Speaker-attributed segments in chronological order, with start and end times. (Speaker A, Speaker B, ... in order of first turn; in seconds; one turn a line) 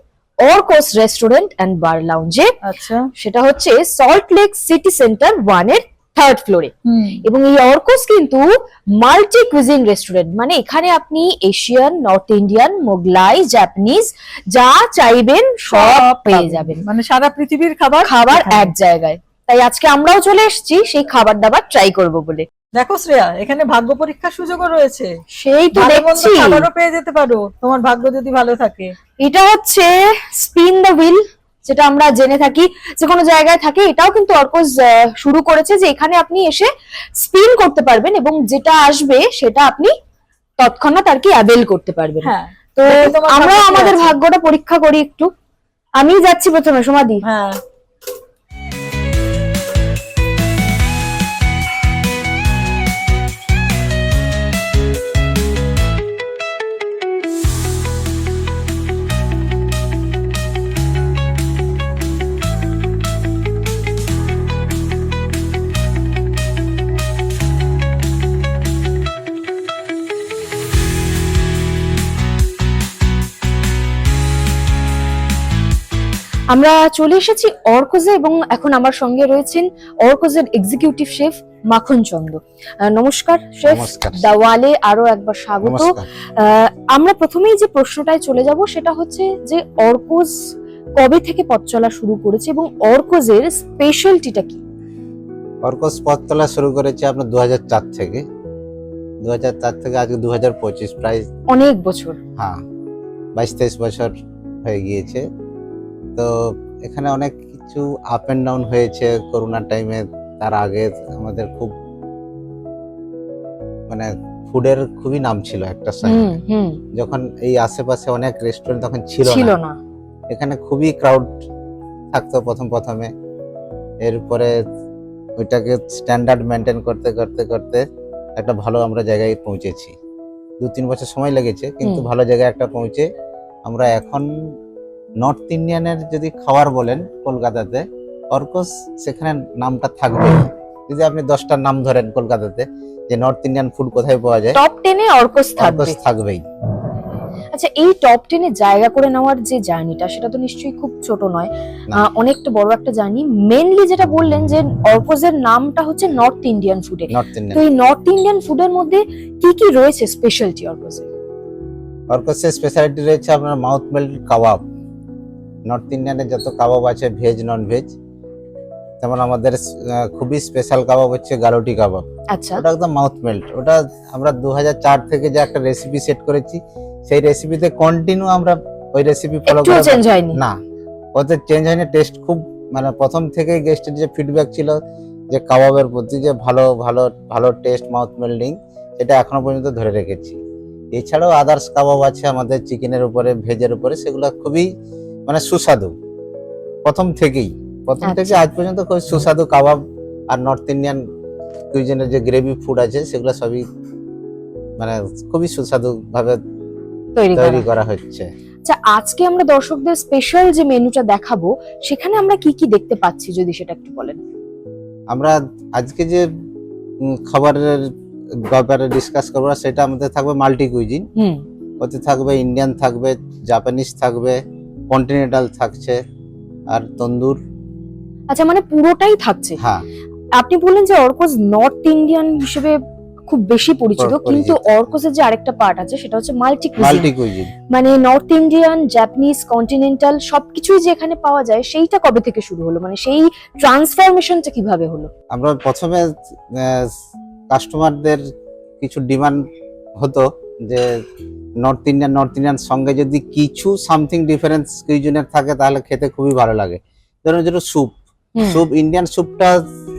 Speaker A: 0.4-2.5
Speaker B: 2.6-3.1
Speaker A: 3.1-16.8
Speaker B: 6.8-7.2
Speaker B: 15.7-18.7
Speaker A: 18.0-22.5
Speaker B: 22.7-25.2
Speaker A: 25.3-26.6
Speaker B: 25.7-28.9
Speaker A: 29.2-39.9
Speaker A: 40.6-45.3
Speaker B: 42.2-44.1
Speaker A: 46.0-47.2
Speaker B: 47.2-47.6
Speaker A: 76.5-94.6
Speaker C: 83.7-84.2
Speaker C: 85.6-86.1
Speaker C: 95.6-98.2
Speaker C: 99.2-101.3
Speaker A: 101.5-102.2
Speaker C: 102.4-102.6
Speaker C: 103.3-105.3
Speaker C: 106.2-111.7
Speaker C: 113.9-116.4
Speaker A: 116.0-116.8
Speaker C: 116.9-119.5
Speaker A: 119.2-119.8
Speaker C: 120.3-121.3
Speaker C: 122.1-123.1
Speaker C: 124.0-124.6
Speaker C: 125.4-129.9
Speaker C: 130.6-133.1
Speaker C: 133.7-134.3
Speaker C: 135.2-144.6
Speaker A: 144.5-146.0
Speaker C: 145.6-146.4
Speaker A: 147.5-161.1
Speaker C: 157.1-157.6
Speaker C: 162.1-164.6
Speaker C: 165.7-167.9
Speaker C: 169.0-180.6
Speaker A: 172.3-172.6
Speaker A: 179.5-180.4
Speaker C: 181.1-184.8
Speaker C: 185.3-190.4
Speaker C: 190.9-194.7
Speaker C: 195.3-195.9
Speaker C: 196.8-201.0
Speaker A: 198.0-198.4
Speaker C: 201.7-203.6
Speaker C: 204.8-206.4
Speaker A: 207.2-207.6
Speaker C: 207.3-208.2
Speaker A: 208.7-214.2
Speaker C: 215.1-216.3
Speaker C: 217.0-217.9
Speaker C: 218.4-221.1
Speaker A: 221.2-221.4
Speaker C: 221.8-226.0
Speaker C: 226.7-227.4
Speaker A: 228.3-229.6
Speaker C: 229.6-229.8
Speaker A: 230.3-237.1
Speaker C: 234.0-234.6
Speaker C: 236.8-237.5
Speaker A: 237.7-245.1
Speaker C: 245.3-247.0
Speaker C: 247.5-248.2
Speaker C: 248.8-249.4
Speaker C: 250.0-251.0
Speaker C: 251.6-259.6
Speaker A: 258.4-258.6